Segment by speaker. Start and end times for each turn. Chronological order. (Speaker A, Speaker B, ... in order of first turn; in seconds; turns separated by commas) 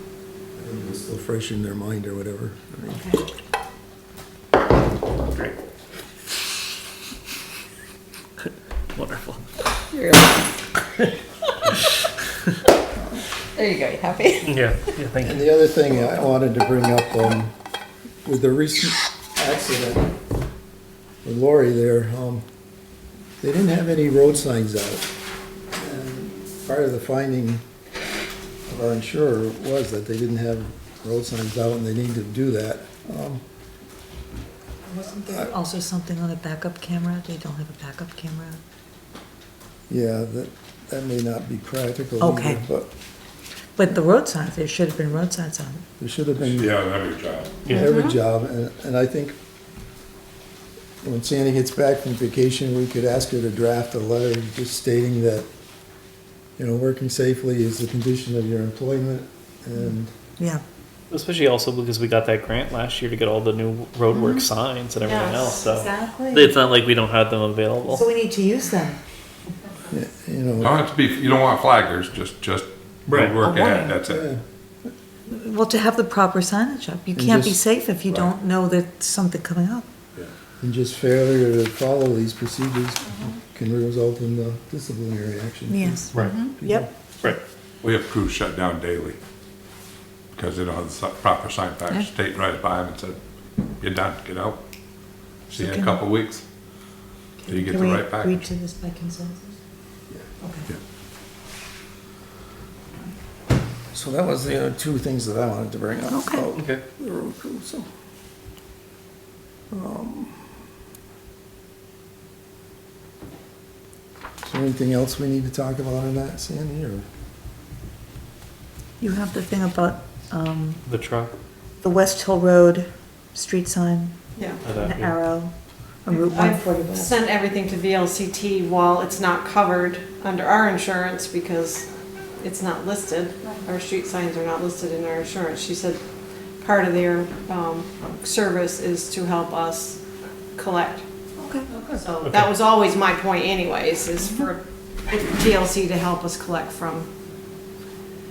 Speaker A: 0.6-3.2, Speaker B: 8.9-9.4, Speaker C: 9.9-10.6, Speaker C: 13.5-14.8, Speaker B: 14.4-15.4, Speaker A: 15.2-17.5, Speaker A: 18.2-20.1, Speaker A: 21.2-22.4, Speaker A: 23.4-25.1, Speaker A: 25.8-27.6, Speaker A: 28.7-33.4, Speaker D: 34.9-38.6, Speaker A: 39.9-42.9, Speaker D: 42.2-42.6, Speaker D: 43.8-45.8, Speaker A: 46.0-46.7, Speaker E: 46.4-47.6, Speaker A: 47.7-49.4, Speaker C: 47.8-48.1, Speaker A: 51.0-55.5, Speaker A: 56.6-60.1, Speaker B: 61.1-68.1, Speaker D: 64.1-64.4, Speaker F: 65.0-65.6, Speaker D: 65.1-66.5, Speaker D: 67.9-69.0, Speaker A: 69.9-70.8, Speaker E: 70.6-74.3, Speaker B: 73.1-73.4, Speaker C: 73.4-74.0, Speaker A: 74.1-74.4, Speaker D: 75.3-79.8, Speaker A: 77.1-77.6, Speaker A: 80.6-86.9, Speaker D: 85.7-86.9, Speaker B: 86.1-86.4, Speaker C: 86.2-86.5, Speaker E: 87.8-89.2, Speaker E: 90.3-93.2, Speaker E: 93.8-94.6, Speaker E: 95.5-96.4, Speaker D: 95.5-96.0, Speaker D: 97.4-99.6, Speaker E: 97.5-98.5, Speaker D: 100.4-100.7, Speaker A: 103.9-107.9, Speaker D: 106.1-106.4, Speaker B: 106.5-106.8, Speaker A: 109.7-110.4, Speaker A: 114.4-117.0, Speaker D: 119.0-120.8, Speaker B: 120.8-121.3, Speaker D: 121.8-125.5, Speaker F: 124.4-124.6, Speaker B: 124.6-125.2, Speaker D: 126.0-127.2, Speaker F: 126.1-131.9, Speaker F: 132.4-136.0, Speaker F: 136.6-140.0, Speaker F: 140.5-141.1, Speaker D: 141.4-142.0, Speaker F: 141.8-147.1, Speaker B: 142.2-142.5